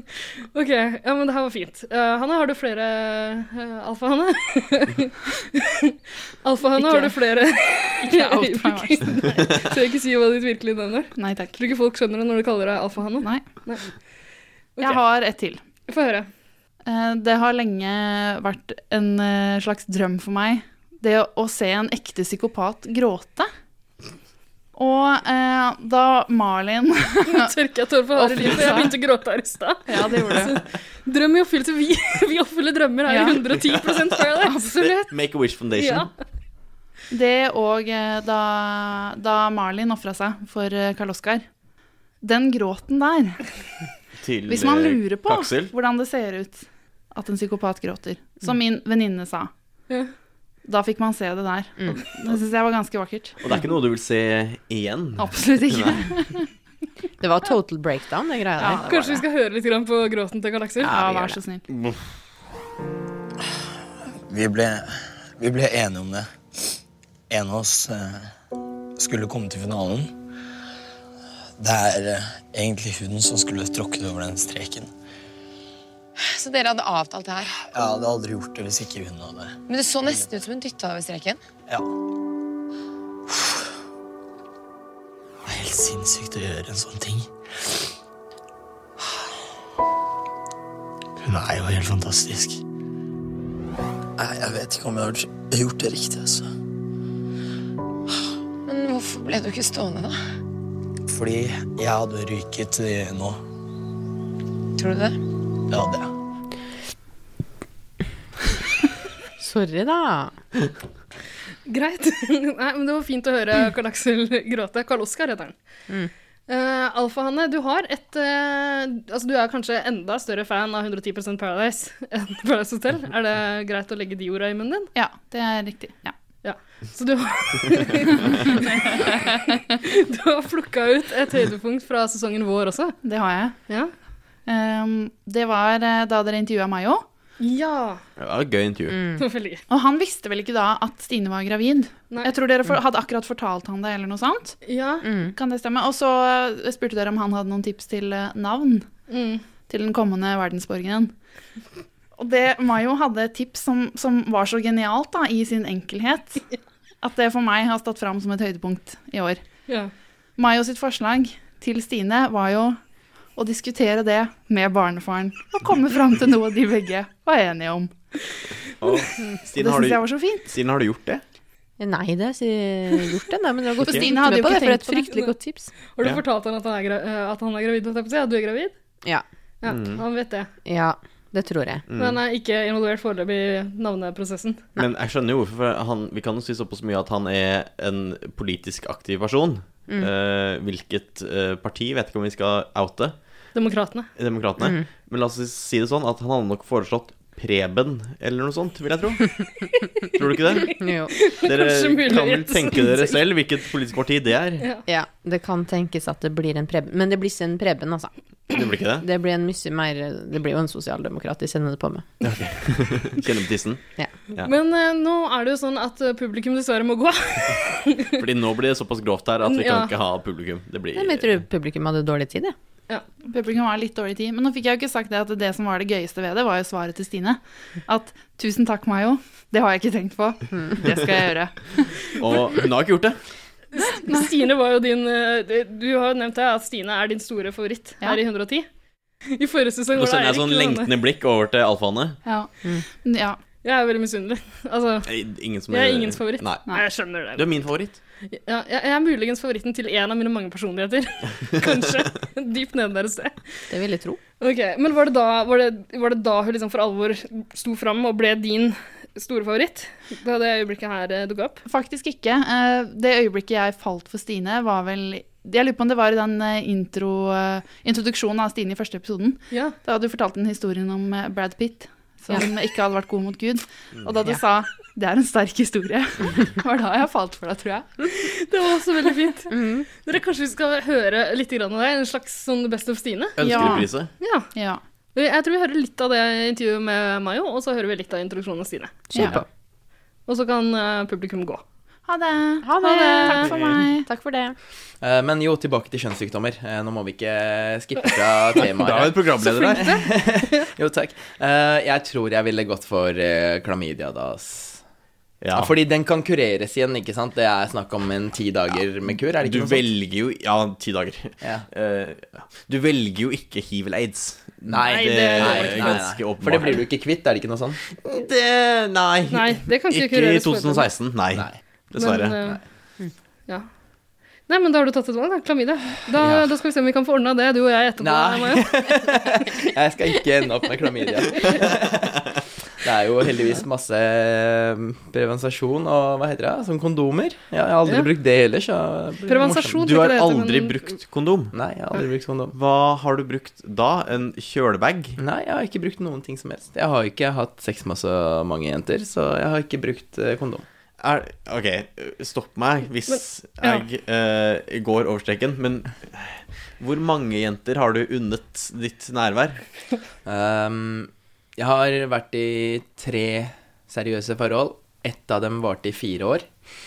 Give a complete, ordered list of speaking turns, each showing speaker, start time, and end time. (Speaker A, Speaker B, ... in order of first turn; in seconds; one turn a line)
Speaker A: 0.2-13.9
Speaker B: 8.0-9.5
Speaker B: 11.2-11.5
Speaker B: 14.8-15.6
Speaker A: 15.9-16.3
Speaker B: 16.9-23.5
Speaker B: 24.8-27.5
Speaker A: 27.3-35.1
Speaker B: 28.1-29.0
Speaker B: 29.9-30.6
Speaker B: 33.1-33.4
Speaker C: 35.1-36.1
Speaker A: 35.8-36.1
Speaker B: 37.1-41.5
Speaker B: 42.2-43.5
Speaker C: 44.2-45.7
Speaker B: 44.5-49.5
Speaker B: 50.7-53.4
Speaker C: 53.4-56.1
Speaker B: 55.2-56.5
Speaker D: 57.2-58.9
Speaker B: 58.6-59.2
Speaker A: 58.8-60.9
Speaker D: 60.8-61.4
Speaker B: 60.9-61.6
Speaker C: 61.7-62.0
Speaker E: 64.3-66.3
Speaker E: 67.3-68.3
Speaker E: 69.0-70.1
Speaker E: 71.6-74.9
Speaker F: 76.2-77.6
Speaker E: 77.7-80.3
Speaker F: 79.7-81.4
Speaker E: 83.3-83.7
Speaker E: 85.5-87.7
Speaker E: 91.2-92.6
Speaker E: 94.2-96.5
Speaker F: 98.7-100.2
Speaker E: 101.1-103.4
Speaker F: 104.8-105.2
Speaker E: 105.7-106.1
Speaker D: 109.4-110.3
Speaker A: 111.7-115.6
Speaker A: 116.5-124.9
Speaker B: 125.0-126.2
Speaker A: 126.4-129.1
Speaker B: 128.5-129.1
Speaker A: 129.8-133.0
Speaker B: 133.1-133.6
Speaker B: 134.5-137.0
Speaker A: 137.4-138.0
Speaker C: 138.2-139.0
Speaker D: 138.9-139.2
Speaker A: 139.2-139.6
Speaker B: 139.7-144.6
Speaker A: 144.7-145.1
Speaker D: 145.0-145.3
Speaker B: 145.3-149.1
Speaker A: 149.1-149.4
Speaker B: 149.7-151.1
Speaker B: 152.2-156.5
Speaker B: 157.0-159.4
Speaker B: 160.4-162.8
Speaker B: 163.4-167.9
Speaker C: 168.8-171.2
Speaker B: 169.5-170.5
Speaker D: 171.8-175.7
Speaker B: 173.8-175.2
Speaker C: 173.8-174.1
Speaker A: 175.9-178.7
Speaker A: 179.6-180.5
Speaker C: 179.7-180.0
Speaker D: 180.7-181.8
Speaker C: 181.9-182.2
Speaker A: 182.0-184.7
Speaker C: 184.8-193.2
Speaker A: 193.6-194.1
Speaker C: 194.2-199.3
Speaker D: 194.6-194.9
Speaker C: 200.2-200.8
Speaker A: 200.6-203.2
Speaker D: 200.8-201.1
Speaker C: 201.4-204.7
Speaker D: 204.9-208.1
Speaker C: 208.5-209.1
Speaker D: 209.0-212.1
Speaker C: 212.2-214.5
Speaker A: 214.4-218.2
Speaker C: 218.2-221.4
Speaker A: 219.4-219.9
Speaker D: 220.9-222.6
Speaker B: 223.3-232.2
Speaker C: 232.2-233.2
Speaker A: 233.7-238.7
Speaker B: 233.8-234.3
Speaker A: 239.4-240.9
Speaker C: 239.9-242.2
Speaker B: 242.2-243.4
Speaker A: 243.6-245.1
Speaker C: 245.1-246.7
Speaker A: 245.7-247.7
Speaker C: 247.3-248.0
Speaker A: 248.3-253.7
Speaker D: 253.7-254.2
Speaker A: 254.4-261.6
Speaker B: 261.7-278.3
Speaker A: 278.1-283.7
Speaker D: 279.5-279.9
Speaker C: 283.4-284.1
Speaker B: 283.4-283.9
Speaker A: 284.2-284.5
Speaker B: 284.6-284.8
Speaker A: 285.1-289.3
Speaker D: 289.1-289.4
Speaker A: 290.3-291.6
Speaker B: 292.1-294.1
Speaker D: 292.6-294.6
Speaker A: 292.9-293.5
Speaker G: 295.0-304.8
Speaker C: 298.6-299.9
Speaker A: 299.4-300.1
Speaker C: 305.4-305.7
Speaker G: 305.5-309.9
Speaker C: 309.4-316.8
Speaker G: 311.4-311.7
Speaker G: 314.7-317.8
Speaker A: 314.9-316.1
Speaker C: 318.1-322.4
Speaker A: 319.3-320.9
Speaker A: 322.0-322.6
Speaker A: 324.5-328.8
Speaker G: 326.2-326.5
Speaker G: 328.0-332.2
Speaker G: 332.8-339.9
Speaker A: 339.3-340.9
Speaker C: 339.8-341.5
Speaker G: 341.5-342.6
Speaker C: 342.5-345.2
Speaker G: 345.2-350.6
Speaker C: 351.0-359.6
Speaker A: 353.1-353.8
Speaker G: 360.2-366.5